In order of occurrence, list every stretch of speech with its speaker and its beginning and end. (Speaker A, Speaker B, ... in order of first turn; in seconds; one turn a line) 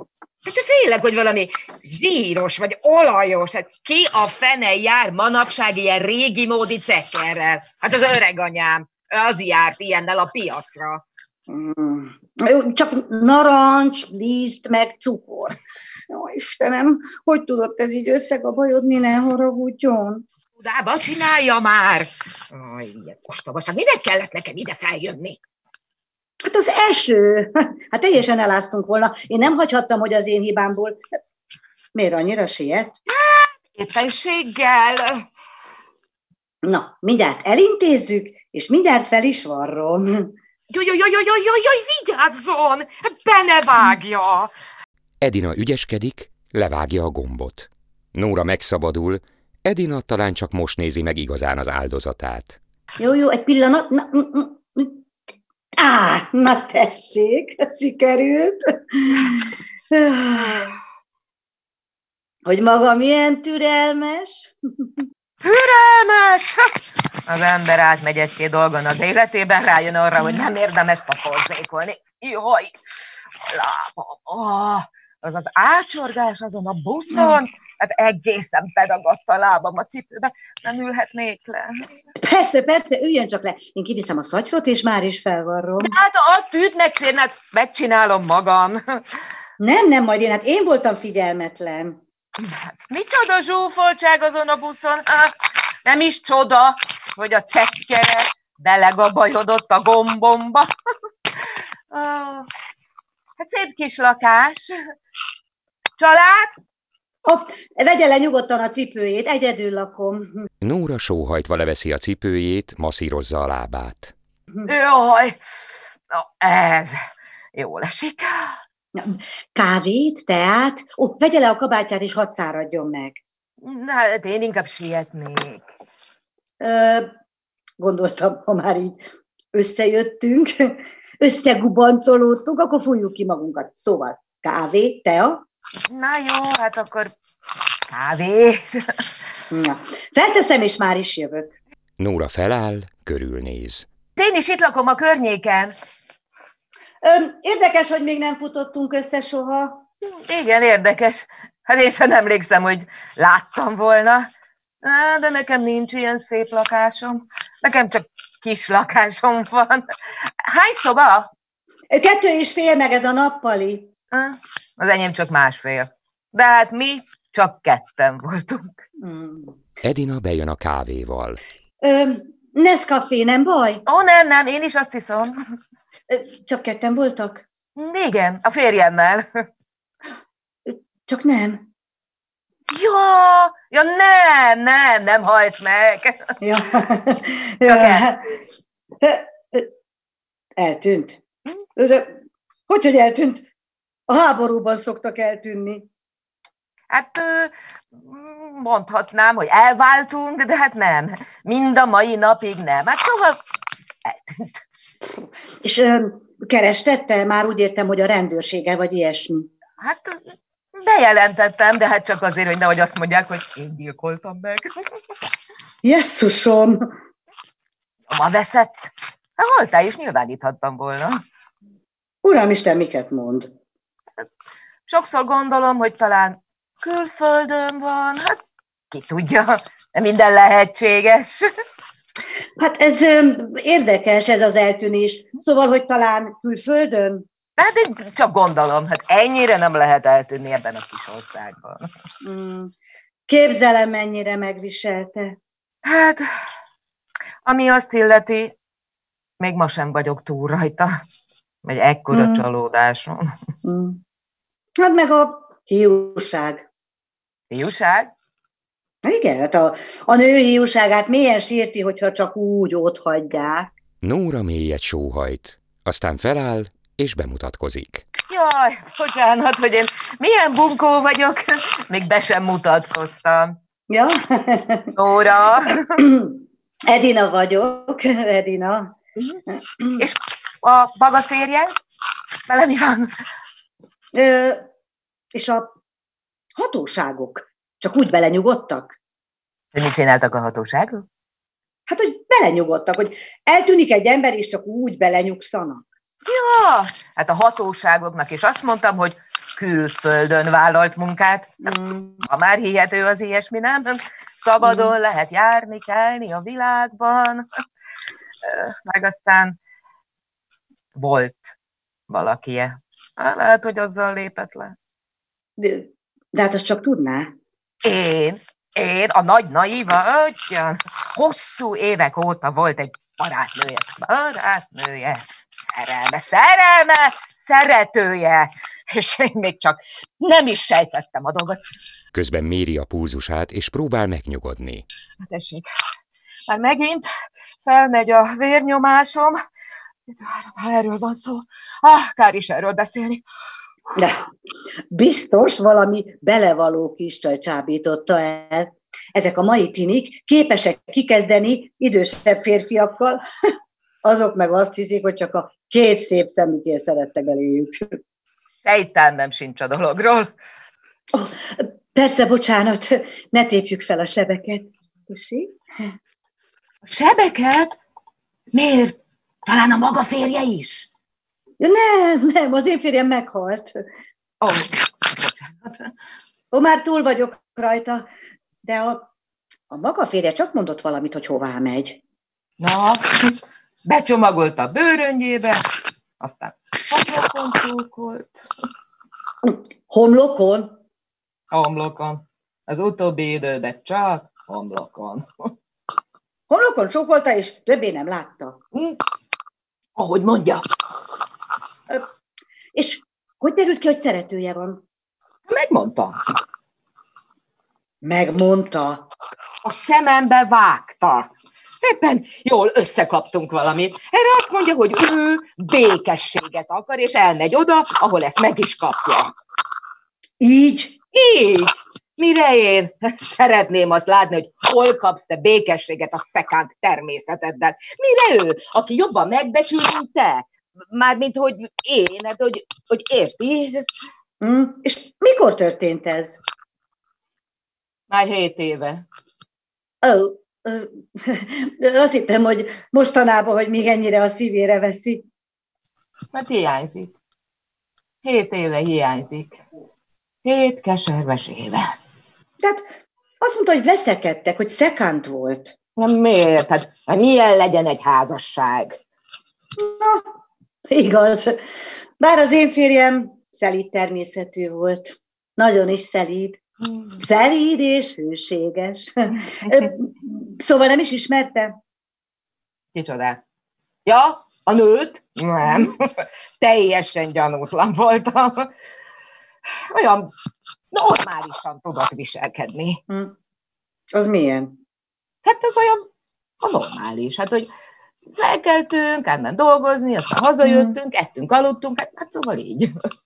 Speaker A: 0.5-11.0
Speaker B: 11.5-15.6
Speaker B: 16.1-20.2
Speaker A: 20.6-25.4
Speaker B: 26.4-31.0
Speaker B: 31.9-33.0
Speaker A: 33.1-35.3
Speaker B: 36.6-40.3
Speaker A: 40.7-44.5
Speaker C: 45.2-52.6
Speaker B: 53.0-55.0
Speaker B: 55.8-60.7
Speaker B: 62.5-65.0
Speaker A: 65.4-72.8
Speaker A: 73.5-82.0
Speaker B: 77.1-77.4
Speaker B: 82.2-86.0
Speaker A: 85.8-89.0
Speaker B: 89.6-92.0
Speaker A: 92.4-100.7
Speaker A: 101.5-102.5
Speaker A: 103.4-104.8
Speaker A: 106.0-106.5
Speaker B: 107.2-110.3
Speaker C: 110.6-114.1
Speaker A: 114.7-115.4
Speaker A: 116.1-117.0
Speaker A: 117.5-118.6
Speaker B: 119.0-123.2
Speaker A: 123.6-125.6
Speaker B: 126.6-127.1
Speaker B: 127.8-129.0
Speaker B: 129.5-135.4
Speaker A: 135.9-137.2
Speaker A: 137.9-139.0
Speaker B: 139.5-141.5
Speaker C: 142.0-143.9
Speaker A: 144.2-145.8
Speaker B: 147.0-149.8
Speaker A: 150.0-154.3
Speaker A: 154.8-161.3
Speaker B: 161.9-163.9
Speaker A: 164.1-168.8
Speaker B: 169.0-169.6
Speaker C: 169.8-171.4
Speaker B: 171.8-173.8
Speaker A: 173.9-175.4
Speaker B: 176.1-177.4
Speaker A: 177.8-179.5
Speaker B: 180.7-181.7
Speaker A: 182.7-186.3
Speaker B: 186.4-188.2
Speaker A: 187.7-188.2
Speaker B: 189.0-189.7
Speaker B: 190.6-191.2
Speaker B: 191.8-192.2
Speaker B: 192.7-193.5
Speaker B: 194.1-195.9
Speaker A: 196.9-203.4
Speaker A: 204.1-204.6
Speaker B: 205.6-209.5
Speaker A: 209.8-214.8
Speaker B: 215.8-216.9
Speaker A: 218.1-221.2
Speaker B: 222.2-223.5
Speaker A: 224.9-228.4
Speaker A: 228.9-231.5
Speaker B: 232.6-237.3
Speaker A: 237.6-241.9
Speaker B: 242.2-242.7
Speaker B: 243.3-245.4
Speaker A: 245.8-246.3
Speaker A: 247.4-248.6
Speaker A: 249.4-251.0
Speaker A: 251.6-253.3
Speaker B: 252.1-252.4
Speaker B: 253.6-254.0
Speaker B: 254.8-256.7
Speaker A: 257.5-258.1
Speaker B: 259.0-263.7
Speaker C: 264.0-268.1
Speaker A: 268.3-273.6
Speaker B: 273.9-274.9
Speaker A: 274.9-276.0
Speaker B: 276.0-278.9
Speaker B: 279.8-280.0
Speaker A: 280.0-281.8
Speaker A: 282.5-283.1
Speaker B: 284.1-284.7
Speaker B: 285.3-285.7
Speaker B: 286.6-289.0
Speaker A: 289.7-291.1
Speaker B: 291.9-295.9
Speaker A: 296.2-301.6
Speaker B: 301.6-302.2
Speaker A: 302.2-307.5
Speaker B: 304.6-304.9
Speaker A: 308.4-309.6
Speaker A: 311.0-311.6
Speaker A: 312.1-314.8
Speaker B: 315.6-317.3
Speaker A: 317.8-331.6
Speaker C: 332.1-334.9
Speaker A: 335.2-335.7
Speaker A: 336.5-337.1
Speaker A: 337.6-339.4
Speaker A: 340.1-343.2
Speaker B: 343.9-344.2
Speaker B: 344.9-353.2
Speaker B: 354.0-358.0
Speaker A: 358.6-360.3
Speaker B: 361.1-365.6
Speaker A: 366.9-367.7
Speaker A: 368.5-370.9
Speaker B: 371.6-373.8
Speaker A: 374.4-375.9
Speaker B: 376.5-378.1
Speaker B: 378.6-379.1
Speaker B: 379.7-382.0
Speaker A: 382.6-385.6
Speaker A: 386.2-388.5
Speaker B: 389.4-390.8
Speaker A: 391.5-395.5
Speaker B: 396.5-398.6
Speaker A: 400.0-400.6
Speaker B: 402.7-404.8
Speaker A: 405.5-406.2
Speaker B: 408.0-409.1
Speaker A: 409.6-411.3
Speaker A: 411.8-419.3
Speaker B: 420.4-421.0
Speaker A: 421.1-433.9
Speaker B: 434.4-436.4
Speaker A: 438.1-439.1
Speaker B: 440.0-445.3
Speaker A: 446.3-447.1
Speaker A: 448.2-449.6
Speaker A: 450.4-451.9
Speaker B: 452.6-452.9
Speaker B: 453.4-455.8
Speaker A: 456.0-459.0
Speaker B: 459.8-460.2
Speaker B: 460.9-461.6
Speaker B: 462.2-466.6
Speaker B: 467.2-471.8
Speaker A: 472.9-473.4
Speaker A: 474.1-478.7
Speaker A: 479.9-480.3
Speaker A: 480.9-483.0
Speaker B: 483.1-483.4
Speaker B: 484.1-484.8
Speaker A: 485.4-486.1
Speaker A: 486.6-487.7
Speaker A: 488.3-492.9
Speaker B: 490.6-490.9